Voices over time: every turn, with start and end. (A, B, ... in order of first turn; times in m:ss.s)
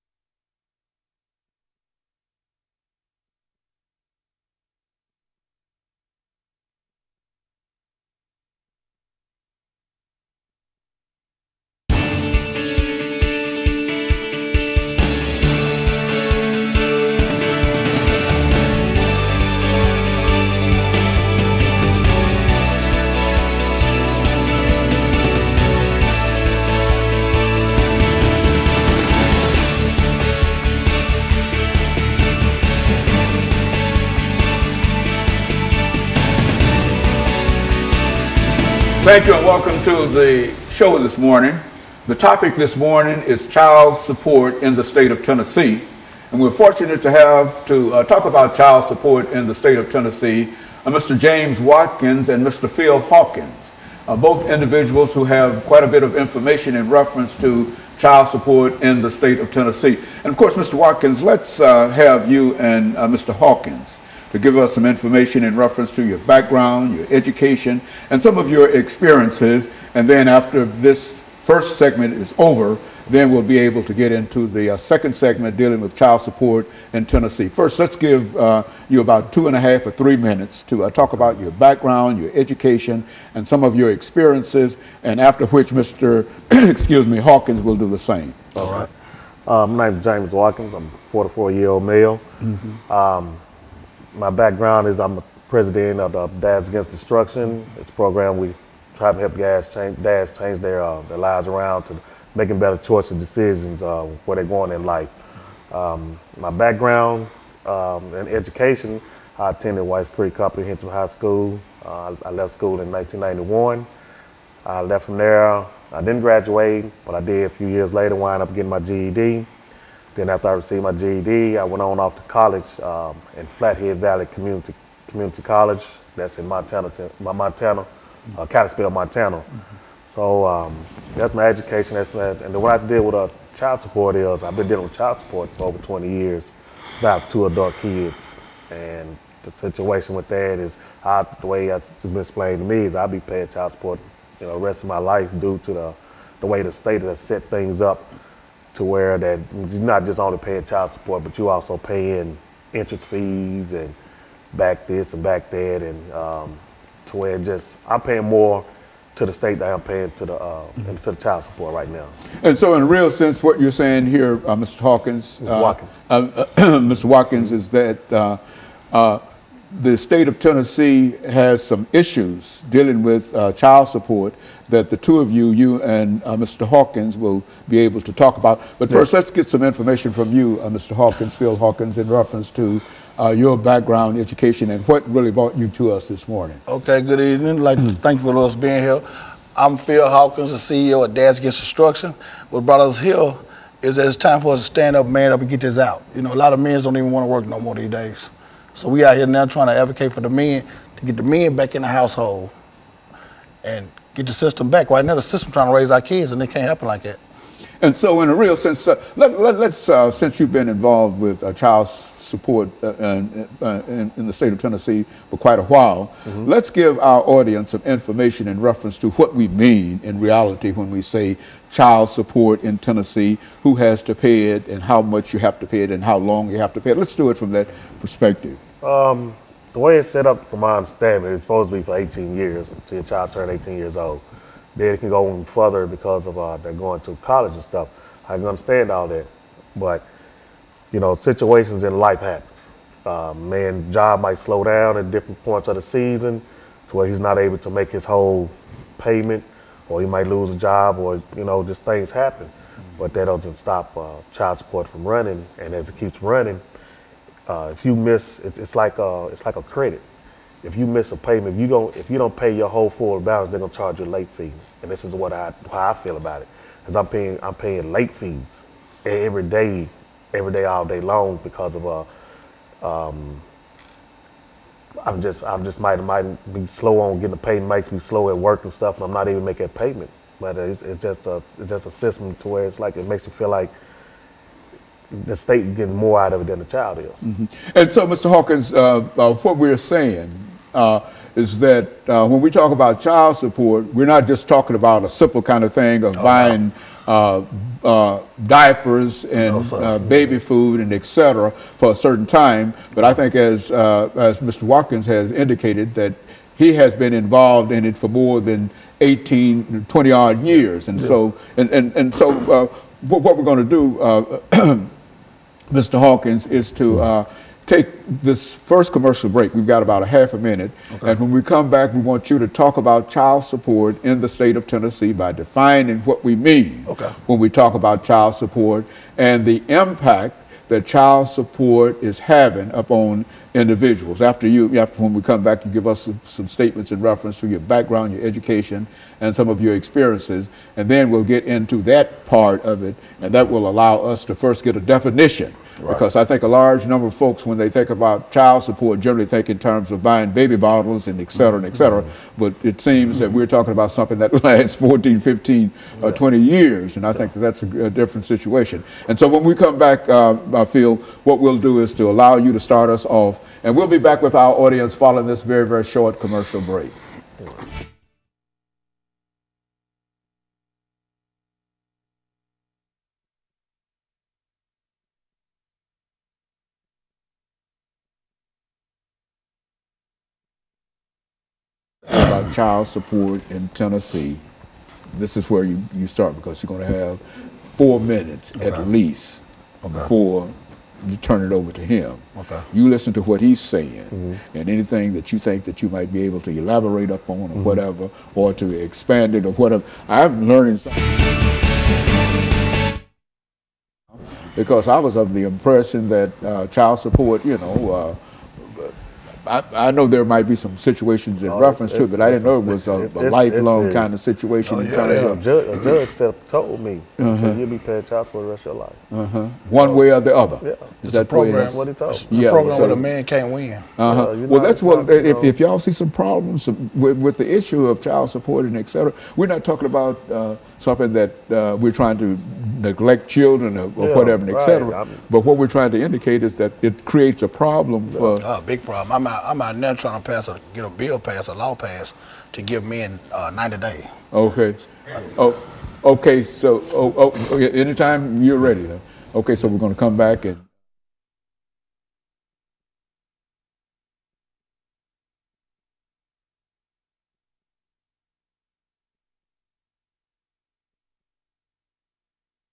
0:39.0-1:28.6 A
1:28.6-1:28.9 B
1:29.5-1:32.2 B
1:32.9-1:33.4 B
1:34.2-1:45.1 B
1:45.7-1:53.9 B
1:54.6-1:59.5 B
2:00.2-2:09.5 B
2:10.1-2:28.1 B
2:28.7-2:34.0 B
2:34.5-2:38.6 B
2:39.2-2:42.1 B
2:42.4-2:48.4 A
2:45.4-2:45.9 B
2:48.9-3:06.6 A
3:06.7-3:09.0 C
3:09.6-3:22.5 C
3:23.6-3:27.2 C
3:27.8-3:48.6 A
3:48.8-3:54.2 B
3:54.8-4:00.1 B
4:00.9-4:02.5 B
4:03.0-4:16.6 B
4:17.5-4:20.0 B
4:20.6-4:32.1 B
4:32.8-4:33.4 B
4:35.0-4:43.7 B
4:45.1-4:47.2 B
4:47.2-5:14.9 A
4:59.5-5:00.0 C
5:15.7-6:07.0 A
5:26.9-5:27.2 C
6:22.1-6:24.4 A
6:25.1-6:41.1 A
6:29.8-6:30.1 C
6:32.4-6:32.6 C
6:44.6-6:55.4 A
6:51.5-6:54.1 B
6:54.6-6:55.4 C
6:55.0-6:59.0 B
6:57.2-6:57.6 A
6:59.1-7:03.0 A
7:00.6-7:00.9 B
7:01.0-7:03.9 C
7:01.5-7:03.0 B
7:04.0-7:18.4 A
7:04.0-7:05.6 B
7:14.0-7:15.2 B
7:18.4-7:24.1 C
7:24.3-7:30.6 A